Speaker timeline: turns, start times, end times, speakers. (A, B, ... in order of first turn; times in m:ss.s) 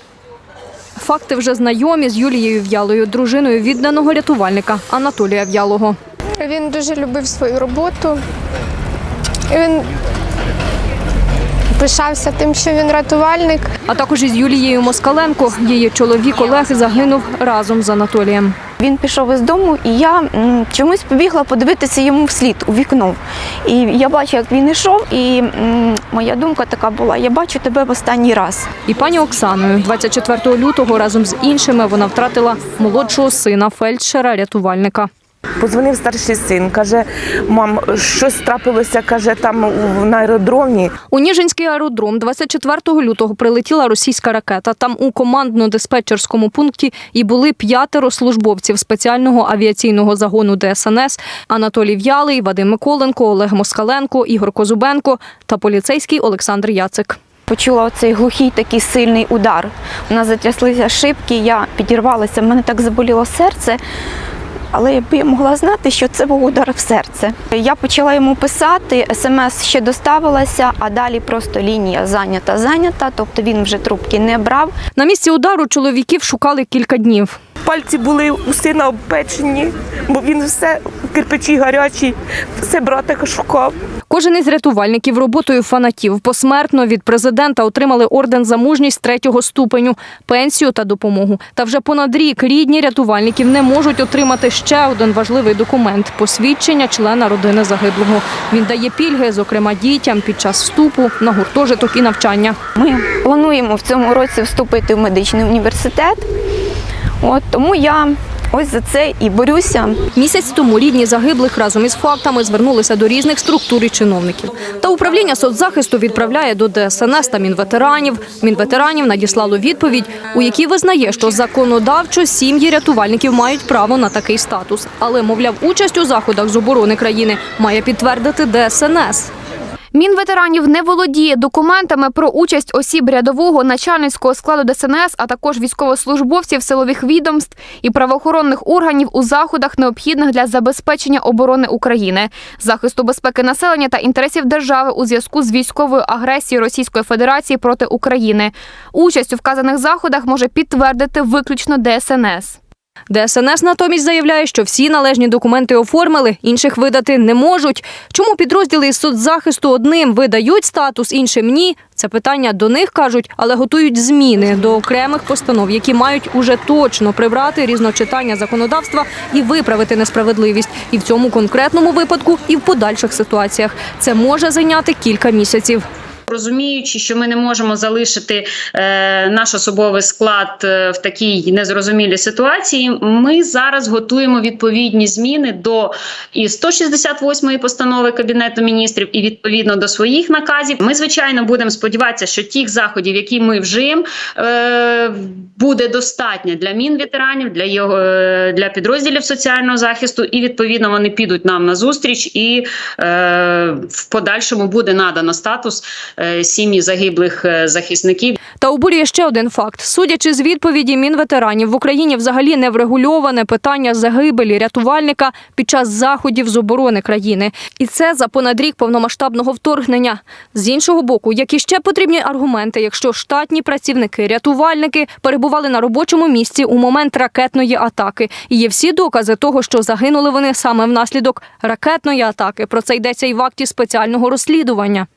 0:01.0-0:06.0 A
0:06.4-0:08.2 B
0:09.5-0:09.9 B
0:11.8-0:13.7 B
0:13.9-0:18.6 A
0:18.8-0:28.7 C
0:28.9-0:35.1 A
0:35.6-0:40.9 D
0:41.1-0:57.2 A
0:57.5-1:03.8 C
1:04.7-1:14.7 C
1:15.0-1:17.4 A
1:17.6-1:23.8 D
1:24.1-1:42.6 A
1:42.8-1:46.3 C
1:47.2-1:50.0 C
1:50.2-2:09.3 A
2:09.9-2:32.6 E
2:33.1-2:55.8 A
2:56.3-3:28.4 F
3:28.6-3:55.1 A